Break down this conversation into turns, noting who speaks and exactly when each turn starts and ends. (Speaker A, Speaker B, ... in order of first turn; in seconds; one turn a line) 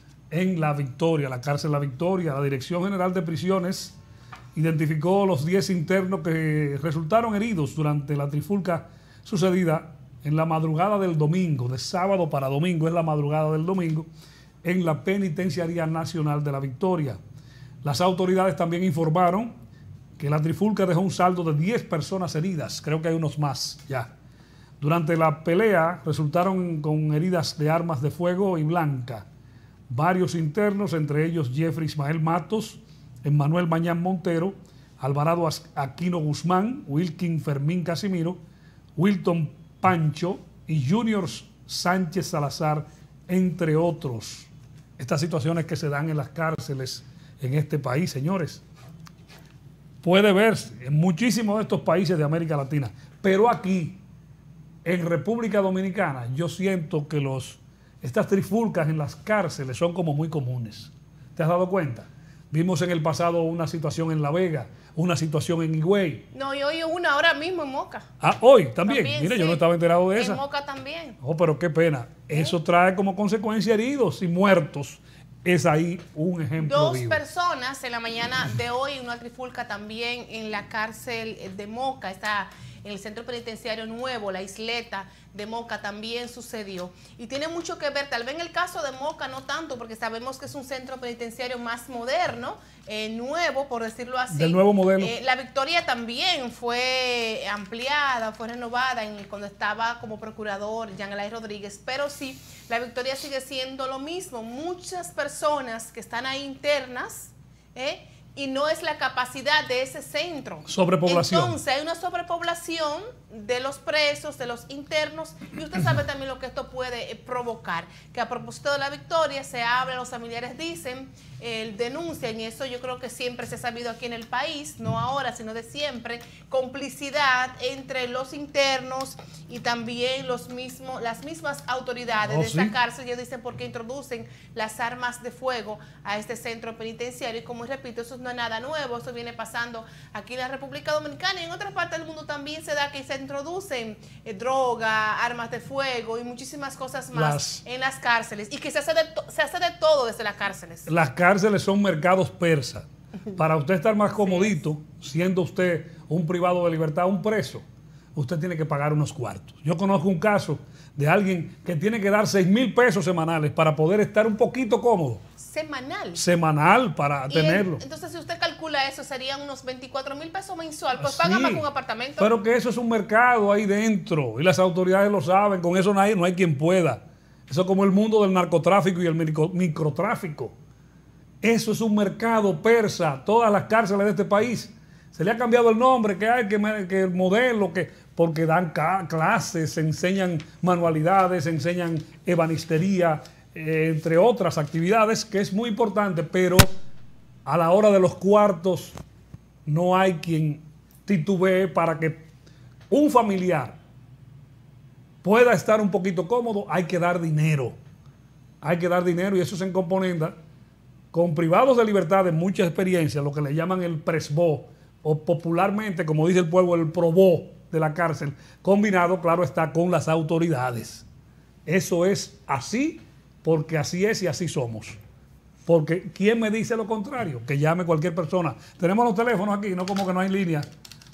Speaker A: 0.3-4.0
Speaker A: 4.5-14.1
Speaker A: 14.6-17.2
Speaker A: 17.8-19.5
Speaker A: 20.2-24.1
Speaker A: 24.8-29.2
Speaker A: 29.9-38.4
Speaker A: 39.0-48.6
Speaker A: 50.0-54.0
Speaker A: 54.8-66.3
Speaker B: 66.3-68.1
Speaker A: 68.2-70.4
Speaker B: 68.8-69.6
Speaker B: 70.1-71.2
Speaker A: 71.2-77.2
Speaker B: 76.6-150.9
Speaker A: 94.3-95.1
Speaker A: 110.7-111.5
Speaker A: 132.2-132.7
Speaker A: 147.1-147.6
Speaker A: 150.9-157.6
Speaker B: 154.2-154.6
Speaker A: 158.1-165.2
Speaker B: 165.4-166.2
Speaker A: 166.1-167.8
Speaker B: 167.3-172.3
Speaker A: 171.0-171.6
Speaker A: 172.2-180.5
Speaker A: 181.4-196.7
Speaker A: 197.4-198.9
Speaker A: 199.7-202.2
Speaker A: 202.9-203.8
Speaker A: 205.2-207.8
Speaker A: 208.6-210.3
Speaker A: 211.1-221.0
Speaker A: 221.7-225.0
Speaker A: 225.7-230.7